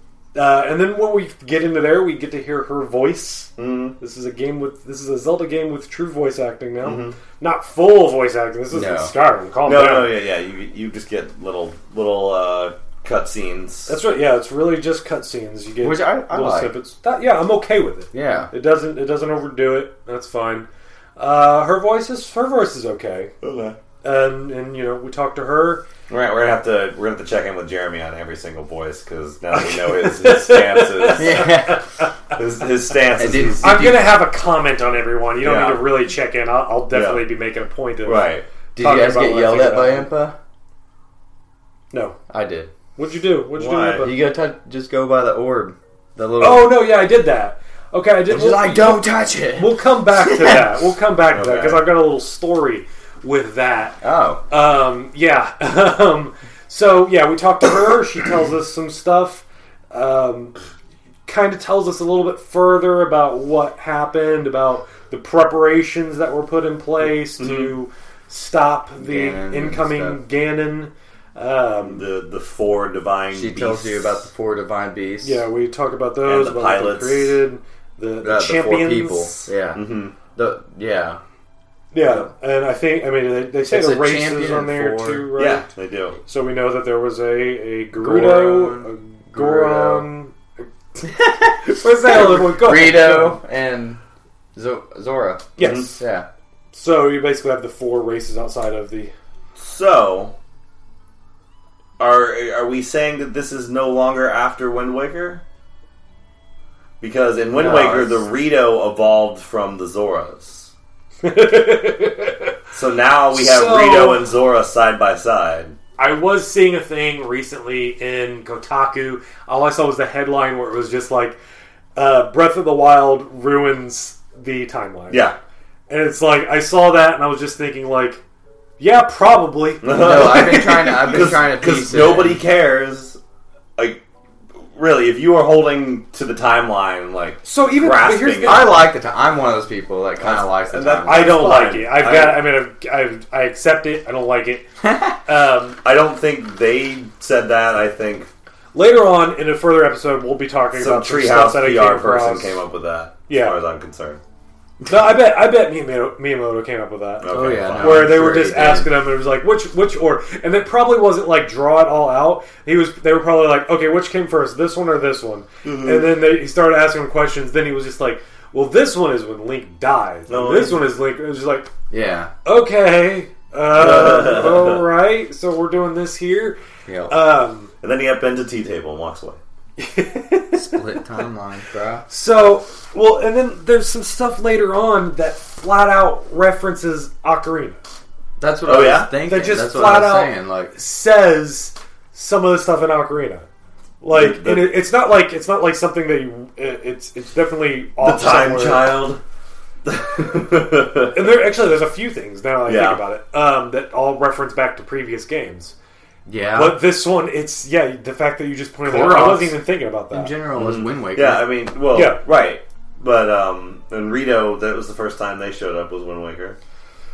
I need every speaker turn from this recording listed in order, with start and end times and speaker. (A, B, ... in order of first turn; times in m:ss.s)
0:00.3-0:10.2 A
0:03.6-0:04.0 B
0:06.8-0:07.2 B
0:08.7-0:09.1 C
0:09.6-0:13.9 B
0:13.9-0:23.3 A
0:15.8-0:16.7 C
0:18.1-0:18.5 C
0:23.4-0:23.8 B
0:24.0-0:25.8 A
0:26.1-0:31.4 B
0:29.5-0:32.1 A
0:31.2-0:31.8 C
0:32.3-0:33.7 B
0:33.2-0:34.1 C
0:33.6-0:40.1 A
0:35.4-0:35.9 B
0:36.9-0:37.3 B
0:38.0-0:38.4 B
0:38.7-0:40.4 C
0:41.9-0:42.2 A
0:42.3-0:42.7 C
0:43.0-0:44.2 A
0:43.6-0:44.1 B
0:44.0-0:46.9 C
0:46.4-1:00.5 A
0:48.3-0:50.7 C
0:51.3-0:51.8 B
0:54.0-0:54.4 C
1:01.2-1:12.1 A
1:07.4-1:07.7 B
1:09.0-1:10.2 C
1:11.8-1:14.2 B
1:13.3-1:15.4 C
1:15.2-1:19.5 A
1:16.2-1:17.4 B
1:18.2-1:21.2 C
1:19.7-1:20.1 B
1:21.9-1:25.7 A
1:23.6-1:25.3 C
1:25.4-1:26.2 B
1:26.2-1:31.0 A
1:28.0-1:30.1 C
1:31.0-1:34.0 C
1:31.6-1:33.4 A
1:34.5-1:36.2 C
1:35.6-1:35.9 A
1:35.6-1:35.9 B
1:36.7-1:39.1 A
1:39.6-1:40.3 B
1:42.0-1:45.4 B
1:47.0-1:50.7 B
1:47.6-1:48.2 C
1:51.2-1:52.5 A
1:52.7-1:55.7 B
1:53.3-1:54.2 A
1:56.0-2:01.4 A
2:02.0-2:05.3 A
2:05.1-2:05.4 B
2:05.9-2:08.2 A
2:08.8-2:11.2 A
2:09.8-2:13.2 B
2:09.9-2:12.4 C
2:14.7-2:18.8 B
2:17.4-2:18.9 A
2:18.4-2:21.6 C
2:20.2-2:22.5 B
2:21.1-2:25.8 A
2:24.8-2:25.2 C
2:25.8-2:28.3 B
2:28.7-2:32.6 A
2:30.7-2:34.2 B
2:33.3-2:33.6 A
2:34.8-2:51.7 A
2:37.2-2:38.2 B
2:37.3-2:38.9 C
2:45.6-2:46.2 B
2:50.3-2:50.9 B
2:51.9-2:52.3 C
2:52.4-2:57.7 A
2:53.7-2:54.8 B
2:56.8-2:57.3 C
2:57.8-2:59.4 B
2:59.8-3:00.9 A
3:00.5-3:02.0 C
3:02.1-3:07.8 A
3:08.4-3:10.7 C
3:08.6-3:09.1 B
3:09.2-3:13.5 A
3:14.0-3:19.0 A
3:14.1-3:14.8 B
3:18.0-3:19.2 B
3:19.8-3:21.3 B
3:21.1-3:25.7 A
3:22.6-3:23.0 B
3:26.2-3:26.8 C
3:26.5-3:30.3 A
3:28.8-3:31.5 C
3:30.5-3:36.6 B
3:31.9-3:32.2 A